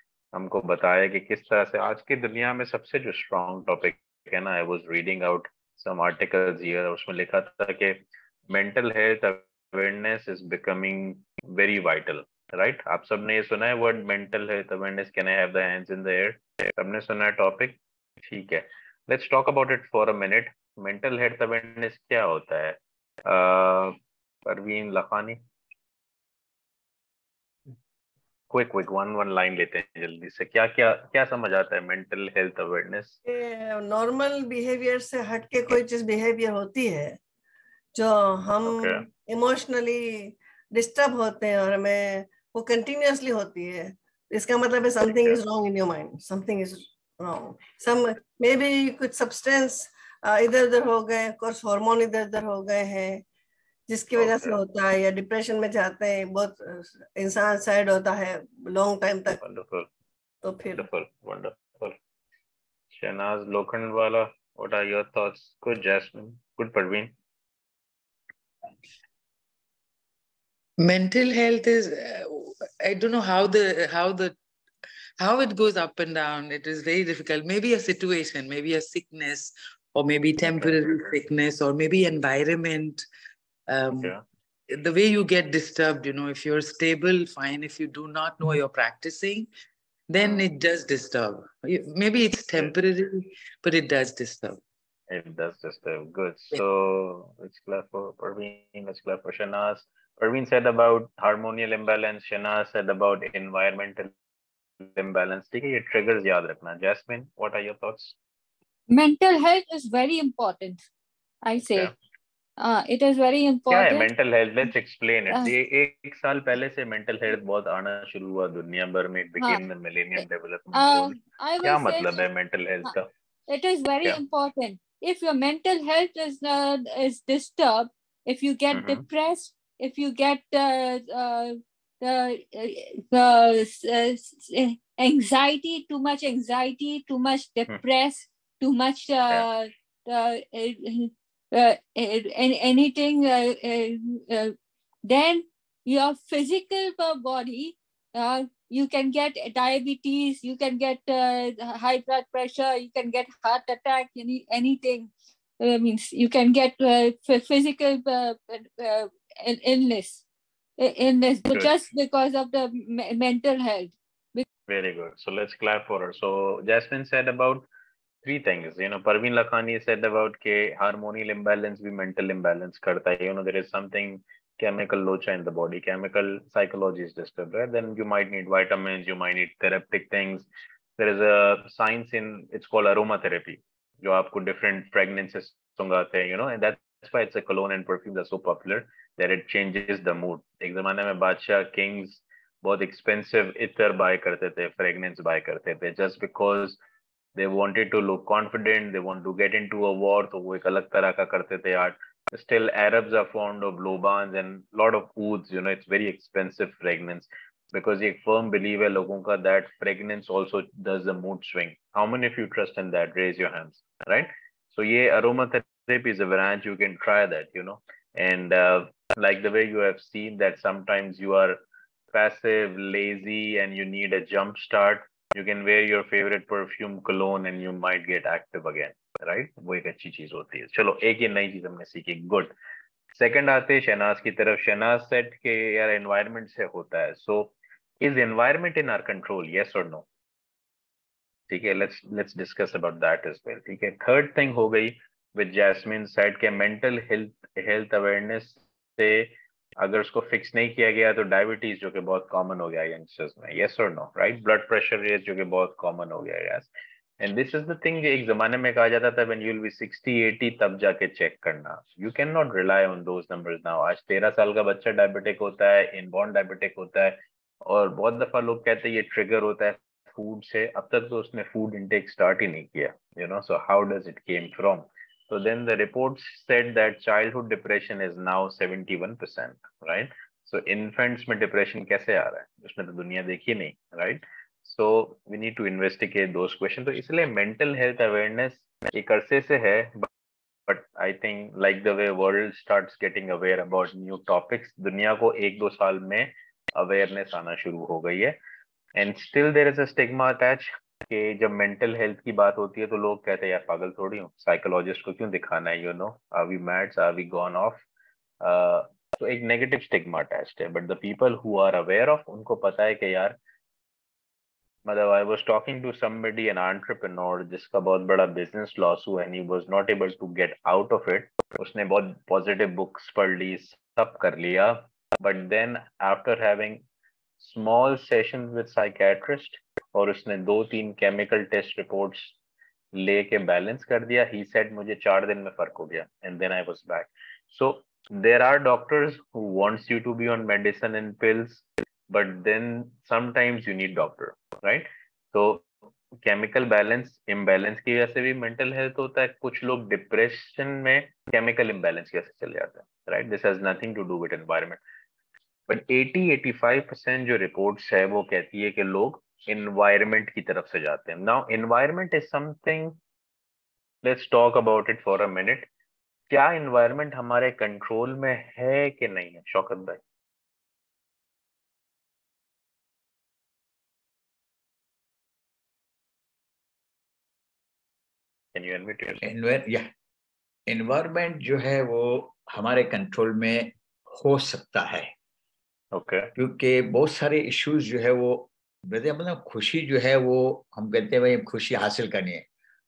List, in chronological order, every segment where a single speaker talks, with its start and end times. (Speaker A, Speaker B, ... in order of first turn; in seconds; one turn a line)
Speaker A: 0.3-8.0
Speaker A: 8.5-25.4
Speaker A: 28.5-33.2
Speaker B: 33.3-37.2
Speaker B: 37.9-53.2
Speaker A: 38.6-39.1
Speaker B: 53.9-59.4
Speaker A: 54.2-54.6
Speaker A: 59.3-59.9
Speaker B: 60.4-60.9
Speaker A: 60.8-62.0
Speaker A: 62.9-67.1
Speaker C: 70.8-74.4
Speaker C: 75.2-83.0
Speaker A: 80.4-81.2
Speaker C: 83.7-84.2
Speaker A: 83.9-84.2
Speaker C: 84.7-89.5
Speaker C: 90.1-94.6
Speaker A: 90.2-90.5
Speaker A: 95.1-104.1
Speaker A: 104.8-108.2
Speaker D: 108.9-110.8
Speaker D: 111.4-111.9
Speaker A: 111.6-111.9
Speaker D: 112.6-114.1
Speaker A: 113.7-123.1
Speaker D: 120.2-122.2
Speaker D: 123.5-144.6
Speaker A: 128.7-129.1
Speaker D: 145.1-160.2
Speaker D: 160.8-164.4
Speaker A: 161.5-161.8
Speaker A: 164.7-167.7
Speaker A: 168.2-180.5
Speaker A: 181.0-196.8
Speaker A: 197.4-221.6
Speaker A: 222.1-232.5
Speaker A: 233.1-240.1
Speaker A: 241.5-290.1
Speaker A: 290.7-298.4
Speaker A: 299.0-307.8
Speaker A: 308.4-313.4
Speaker A: 314.9-326.8
Speaker A: 327.4-332.4
Speaker A: 332.9-345.7
Speaker A: 346.2-354.8
Speaker A: 355.7-363.0
Speaker A: 364.0-365.7
Speaker A: 366.3-370.0
Speaker A: 378.6-379.2
Speaker E: 379.2-379.9
Speaker E: 380.7-385.1
Speaker A: 385.9-386.3
Speaker E: 386.4-392.4